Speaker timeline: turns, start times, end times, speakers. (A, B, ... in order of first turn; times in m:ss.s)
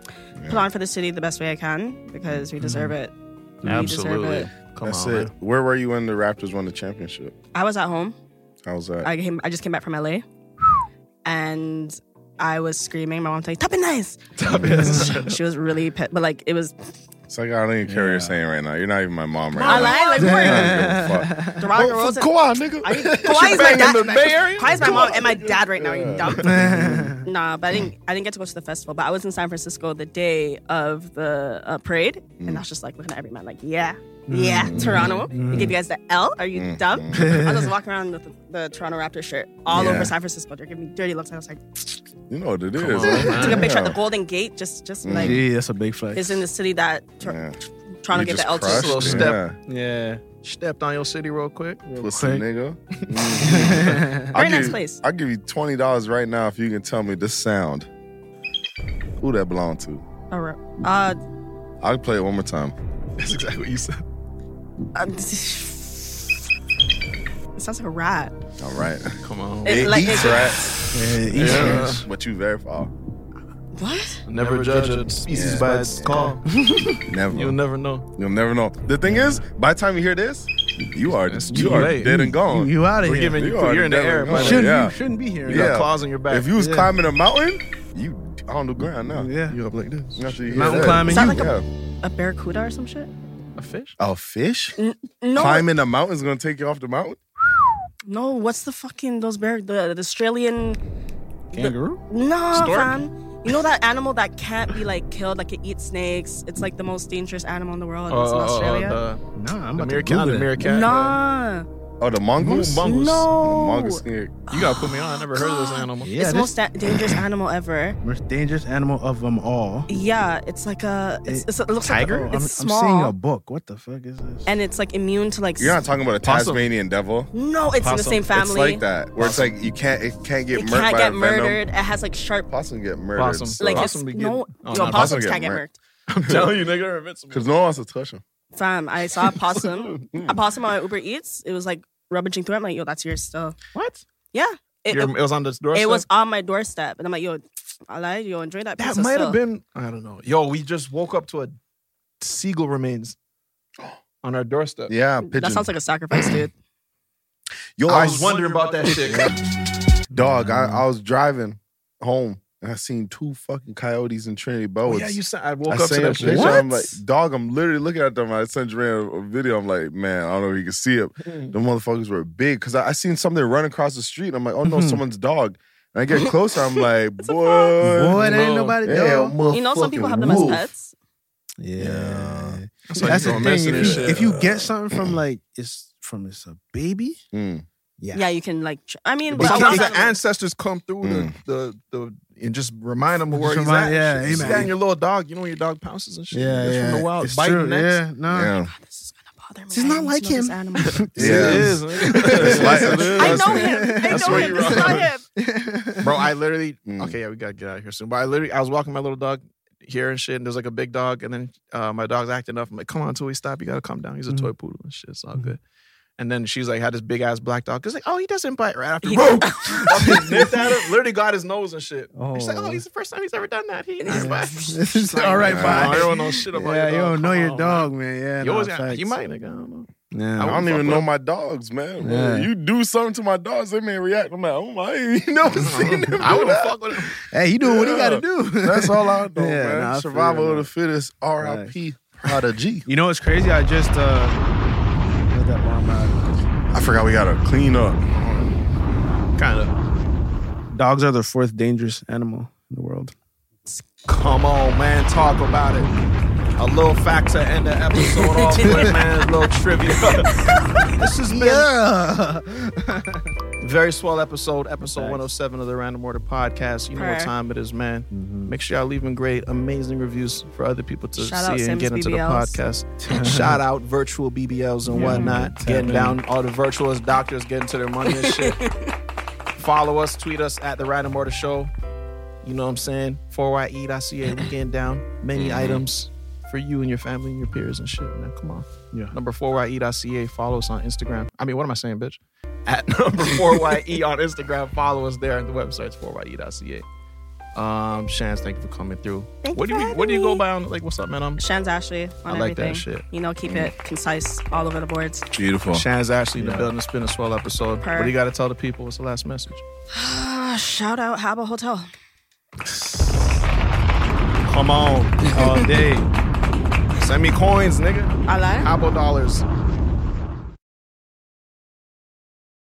0:00.4-0:00.7 A
0:00.5-0:04.5 B
0:02.6-0:02.9 C
0:03.6-0:05.3 D
0:04.8-0:07.3 A
0:07.5-0:08.2 B
0:08.6-0:09.1 A
0:09.0-0:10.2 B
0:11.2-0:16.7 B
0:14.4-0:15.4 D
0:14.4-0:14.9 A
0:14.7-0:15.0 C
0:17.3-0:27.2 A
0:17.8-0:18.4 C
0:19.5-0:21.6 C
0:19.6-0:20.9 B
0:21.6-0:22.3 B
0:22.8-0:25.3 D
0:23.1-0:42.0 B
0:26.1-0:26.5 D
0:26.4-0:27.2 C
0:34.3-0:35.8 C
0:34.6-0:35.2 A
0:34.8-0:35.3 D
0:36.5-0:37.5 A
0:37.1-0:37.6 C
0:39.7-0:40.1 A
0:42.3-0:44.0 A
0:42.8-0:43.7 D
0:43.0-0:45.4 B
0:45.0-0:45.4 A
0:45.2-0:46.3 C
0:46.1-0:47.4 B
0:47.2-0:47.5 A
0:48.0-0:49.2 B
0:48.1-0:49.6 A
0:48.6-0:49.4 D
0:49.1-0:50.2 C
0:50.4-0:51.8 D
0:51.8-0:52.4 C
0:52.0-0:57.9 A
0:53.4-0:54.3 C
0:54.3-0:55.0 B
0:59.2-1:00.0 A
1:00.3-1:01.2 B
1:01.8-1:02.7 A
1:03.2-1:04.0 D
1:05.0-1:06.3 B
1:07.6-1:08.3 B
1:08.6-1:10.7 A
1:09.2-1:12.0 D
1:09.6-1:10.5 B
1:10.9-1:12.0 C
1:11.3-1:12.9 A
1:13.7-1:14.2 B
1:14.3-1:16.4 D
1:14.4-1:17.0 C
1:15.3-1:16.4 A
1:17.1-1:17.6 A
1:17.3-1:18.1 D
1:18.1-1:29.3 A
1:19.0-1:19.4 C
1:21.1-1:22.2 D
1:21.5-1:23.4 C
1:23.0-1:24.7 D
1:24.3-1:25.8 C
1:25.4-1:26.5 D
1:26.6-1:26.9 C
1:29.1-1:29.6 C
1:29.5-1:30.9 D
1:30.2-1:31.6 A
1:30.5-1:31.5 C
1:31.0-1:33.1 B
1:33.6-1:34.0 D
1:34.0-1:34.8 A
1:34.8-1:35.6 B
1:35.3-1:37.2 A
1:38.1-1:40.8 B
1:41.5-1:42.0 C
1:41.5-1:49.0 B
1:42.5-1:43.0 D
1:48.1-1:49.2 D
1:49.4-1:50.5 C
1:49.8-1:51.2 D
1:50.6-1:51.7 B
1:52.0-1:54.4 A
1:52.4-1:53.3 D
1:52.8-1:58.0 B
1:54.5-1:56.2 D
1:56.0-1:56.5 C
1:56.8-1:57.2 A
1:58.0-1:59.9 C
1:59.9-2:03.1 B
2:01.2-2:04.5 C
2:04.4-2:05.8 B
2:05.6-2:07.3 A
2:06.2-2:06.6 D
2:07.3-2:08.8 B
2:07.8-2:08.3 D
2:08.2-2:11.6 A
2:09.2-2:09.6 D
2:10.5-2:12.5 B
2:12.5-2:13.9 A
2:13.2-2:15.3 D
2:13.6-2:15.8 B
2:14.7-2:15.6 A
2:16.1-2:17.5 D
2:16.2-2:16.6 A
2:17.3-2:18.2 A
2:18.5-2:23.6 B
2:19.7-2:20.4 A
2:23.7-2:24.0 C
2:24.3-2:25.1 B
2:24.9-2:26.0 D
2:25.7-2:29.4 B
2:28.8-2:31.5 D
2:32.2-2:33.2 D
2:34.2-2:34.9 D
2:34.9-2:36.4 A
2:35.2-2:36.5 B
2:37.8-2:39.2 A
2:37.8-2:39.3 D
2:40.1-2:40.8 C
2:40.1-3:00.7 A
2:44.8-2:46.8 D
2:46.2-2:46.6 C
2:51.3-2:51.5 D
2:54.6-2:55.0 C
2:57.2-2:57.7 B
2:57.8-2:59.4 C
2:58.1-2:58.8 D
2:59.5-3:00.9 B
3:01.6-3:07.2 C
3:01.8-3:02.6 A
3:02.9-3:04.3 D
3:03.7-3:05.1 A
3:07.3-3:07.6 A
3:08.0-3:08.2 C
3:08.1-3:10.2 B
3:09.3-3:09.9 C
3:09.4-3:18.0 D
3:11.0-3:11.3 A
3:13.4-3:14.7 C
3:14.2-3:14.6 A
3:16.3-3:18.5 C
3:18.3-3:18.7 A
3:18.7-3:21.0 B
3:19.7-3:26.0 C
3:21.0-3:25.1 D
3:21.2-3:23.7 A
3:23.2-3:25.2 B
3:26.0-3:35.6 D
3:26.8-3:27.2 A
3:36.2-3:51.1 D
3:39.0-3:39.9 B
3:39.2-3:40.6 C
3:42.1-3:42.8 C
3:44.0-3:45.6 B
3:44.1-3:49.2 C
3:45.4-3:46.1 A
3:50.1-3:50.6 C
3:50.4-3:57.1 A
3:52.0-3:52.5 C
3:55.5-3:57.1 D
3:57.3-4:00.7 C
3:57.6-4:02.9 A
4:01.4-4:01.7 C
4:02.8-4:04.4 C
4:05.3-4:06.2 C
4:06.7-4:08.0 A
4:08.1-4:08.5 D
4:09.4-4:09.7 D
4:10.7-4:13.1 C
4:14.0-4:15.9 D
4:16.6-4:20.4 D
4:18.1-4:18.9 B
4:21.0-4:21.7 D
4:21.0-4:23.3 C
4:23.6-4:38.6 D
4:24.8-4:25.2 C
4:26.9-4:27.3 B
4:28.1-4:28.5 C
4:31.2-4:32.6 B
4:33.0-4:33.6 C
4:34.8-4:36.2 C
4:35.0-4:35.4 B
4:38.0-4:38.9 B
4:39.6-4:41.7 D
4:42.4-4:56.8 D
4:45.3-4:45.8 A
4:57.5-5:01.4 D
4:59.4-5:00.4 B
5:01.4-5:05.3 B
5:02.2-5:03.0 D
5:03.4-5:03.7 A
5:05.3-5:05.8 A
5:05.7-5:09.6 D
5:06.4-5:06.7 C
5:07.8-5:08.1 B
5:09.9-5:11.9 B
5:14.5-5:16.1 D
5:17.0-5:19.4 D
5:18.3-5:18.7 B